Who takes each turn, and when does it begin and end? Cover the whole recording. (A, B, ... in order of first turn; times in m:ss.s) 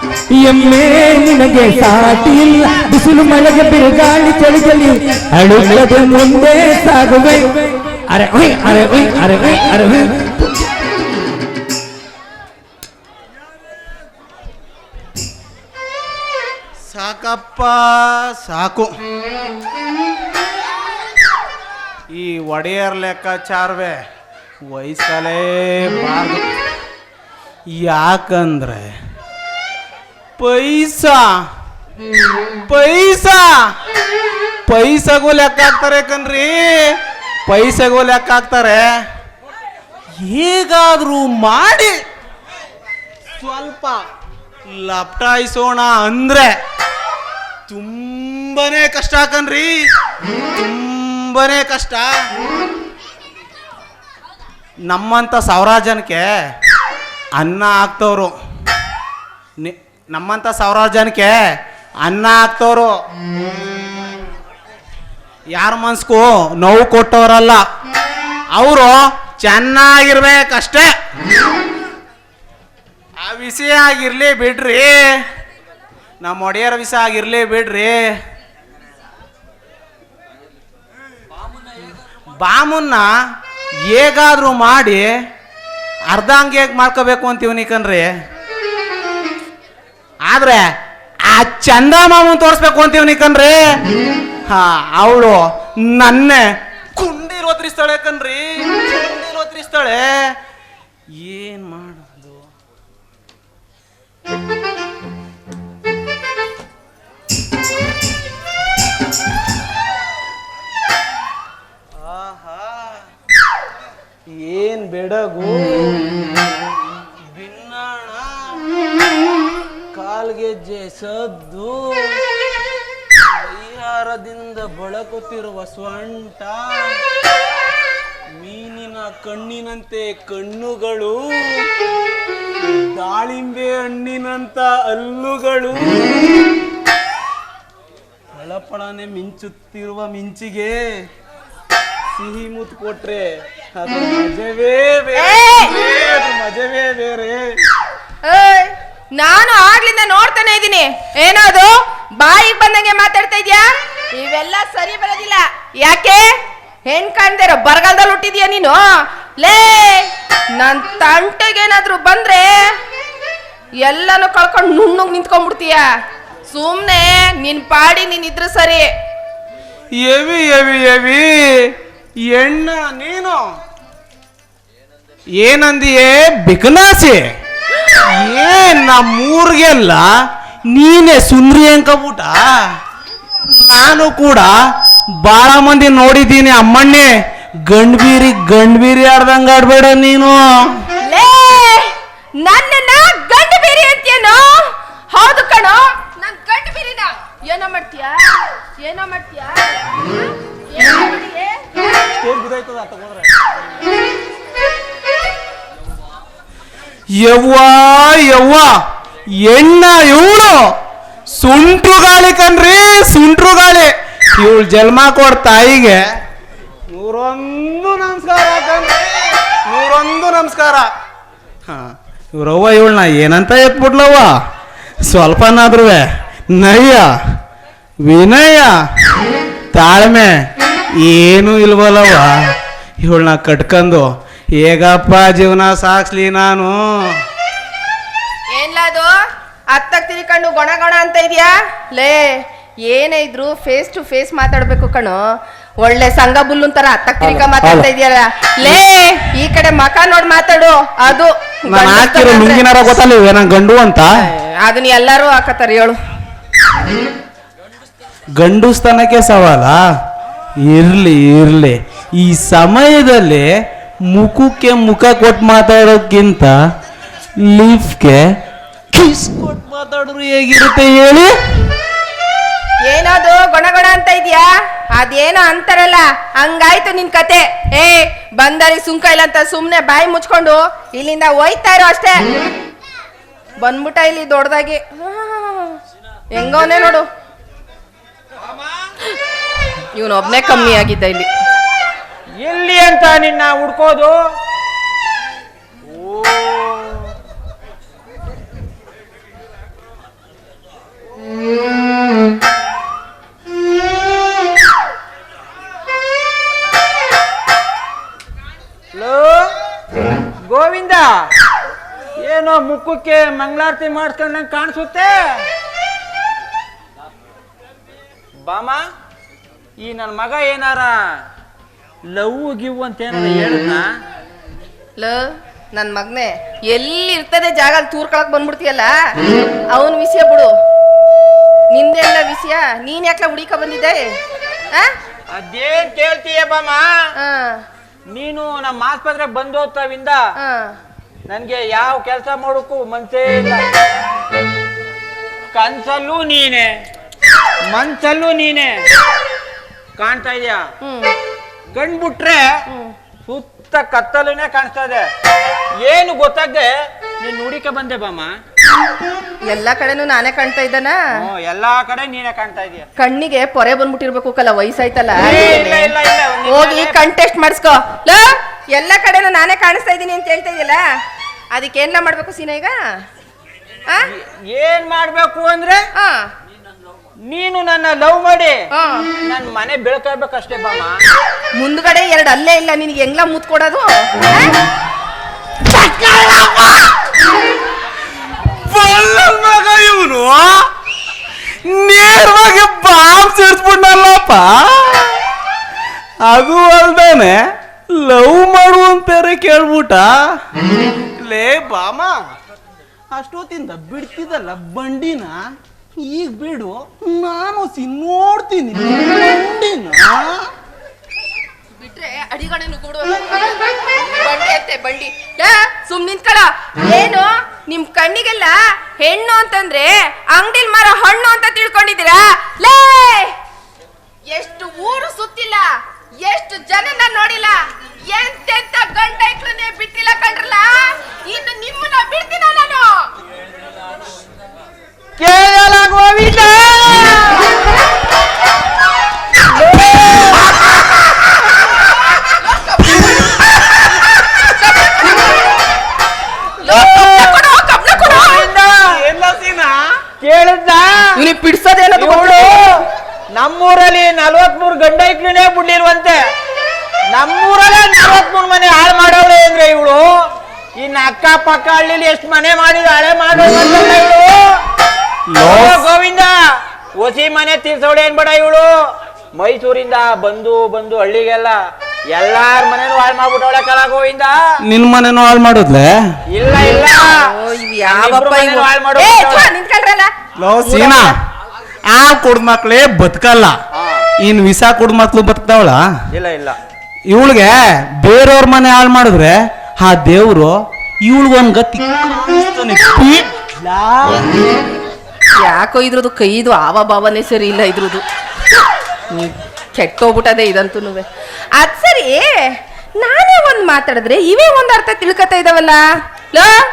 0:00.3-0:10.5 A
0:16.9-0:18.9 B
0:22.1-0:24.0 B
0:24.6-0:26.5 B
0:27.7-0:29.0 B
0:30.4-0:31.4 B
0:32.7-0:33.5 B
0:34.7-0:37.0 B
0:37.5-0:38.9 B
0:40.2-0:42.0 B
0:43.4-0:44.0 B
0:44.7-0:46.6 B
0:47.7-0:49.8 B
0:50.5-0:52.2 B
0:54.9-0:56.3 B
0:57.4-0:58.4 B
0:59.6-1:01.4 B
1:02.0-1:03.0 B
1:05.5-1:07.6 B
1:08.5-1:10.9 B
1:13.2-1:15.2 B
1:16.2-1:18.1 B
1:22.4-1:23.1 B
1:23.9-1:25.1 B
1:26.1-1:28.1 B
1:30.3-1:30.7 B
1:31.3-1:33.6 B
1:34.5-1:40.4 B
1:41.2-1:42.5 B
1:52.0-1:53.1 B
1:54.3-1:56.1 B
1:56.9-1:58.6 B
1:59.9-2:02.2 B
2:03.2-2:07.0 B
2:08.4-2:11.7 B
2:12.6-2:16.1 B
2:18.3-2:20.8 B
2:22.2-2:27.5 B
2:25.2-2:25.8 C
2:28.2-2:33.6 C
2:34.2-2:36.3 C
2:36.9-2:42.6 C
2:43.8-2:45.8 C
2:46.5-2:48.9 C
2:50.0-2:51.8 B
2:52.3-2:53.4 B
2:55.4-2:57.2 B
2:58.0-3:00.1 B
3:00.7-3:02.4 B
3:03.4-3:04.5 B
3:05.2-3:07.1 B
3:07.7-3:10.4 B
3:11.0-3:19.9 C
3:20.7-3:21.7 C
3:22.0-3:23.4 B
3:27.2-3:28.7 B
3:29.4-3:30.7 B
3:31.4-3:36.0 B
3:36.9-3:40.9 B
3:41.7-3:44.3 B
3:45.0-3:47.1 B
3:48.0-3:48.7 B
3:49.7-3:50.3 B
3:51.0-3:56.8 B
3:58.5-3:59.1 C
3:59.7-4:05.2 C
4:05.8-4:13.0 C
4:07.2-4:07.9 B
4:11.7-4:14.2 B
4:14.2-4:16.0 C
4:18.4-4:19.8 B
4:20.6-4:23.5 B
4:24.1-4:26.6 B
4:27.4-4:28.2 B
4:28.9-4:31.3 B
4:32.8-4:42.2 C
4:43.6-4:45.8 C
4:46.3-4:47.0 C
4:49.9-4:51.3 C
4:52.4-4:54.1 D
4:56.1-4:57.1 D
5:08.9-5:09.5 D
5:10.4-5:11.3 D
5:12.2-5:15.5 D
5:18.4-5:18.8 D
5:19.8-5:21.0 D
5:22.1-5:23.9 D
5:25.0-5:29.0 C
5:29.7-5:30.5 C
5:31.7-5:34.1 C
5:35.3-5:37.0 D
5:37.2-5:37.6 C
5:38.1-5:40.2 D
5:40.4-5:40.8 C
5:41.3-5:43.6 D
5:45.5-5:46.8 D
5:47.7-5:48.9 D
5:50.0-5:50.6 D
5:50.8-5:51.1 C
5:51.7-5:52.5 D
5:52.7-5:52.9 C
5:53.3-5:55.1 D
5:55.8-5:58.3 D
5:59.4-6:01.0 C
6:01.2-6:02.9 D
6:03.0-6:05.9 C
6:05.2-6:07.0 D
6:06.4-6:10.8 C
6:11.5-6:12.8 C
6:14.1-6:15.8 D
6:16.0-6:16.3 C
6:17.3-6:18.6 D
6:18.7-6:19.1 C
6:19.2-6:21.0 D
6:21.6-6:24.6 C
6:25.7-6:26.8 B
6:28.4-6:30.7 B
6:31.6-6:35.2 B
6:36.2-6:37.4 B
6:37.9-6:40.1 B
6:41.2-6:42.2 B
6:43.1-6:45.4 B
6:46.0-6:50.5 B
6:51.7-7:03.3 C
7:04.3-7:13.1 C
7:15.2-7:17.6 D
7:19.4-7:20.6 D
7:22.5-7:25.5 C
7:26.6-7:28.5 C
7:26.6-7:27.4 D
7:28.0-7:28.9 D
7:28.8-7:29.8 B
7:30.2-7:30.9 D
7:31.2-7:32.7 C
7:32.0-7:32.8 D
7:33.3-7:36.2 D
7:37.1-7:40.1 D
7:40.8-7:44.5 D
7:45.3-7:45.8 B
7:45.4-7:46.4 D
7:47.0-7:48.7 D
7:49.4-7:51.6 D
7:52.1-7:54.4 D
7:54.6-7:56.0 B
7:56.3-7:57.2 D
7:57.0-8:00.1 C
7:57.8-7:59.5 D
8:00.4-8:01.2 B
8:00.6-8:01.2 C
8:01.9-8:03.6 B
8:03.8-8:04.1 D
8:04.2-8:05.9 B
8:06.1-8:06.6 D
8:07.1-8:14.3 B
8:15.4-8:18.0 C
8:19.1-8:26.6 C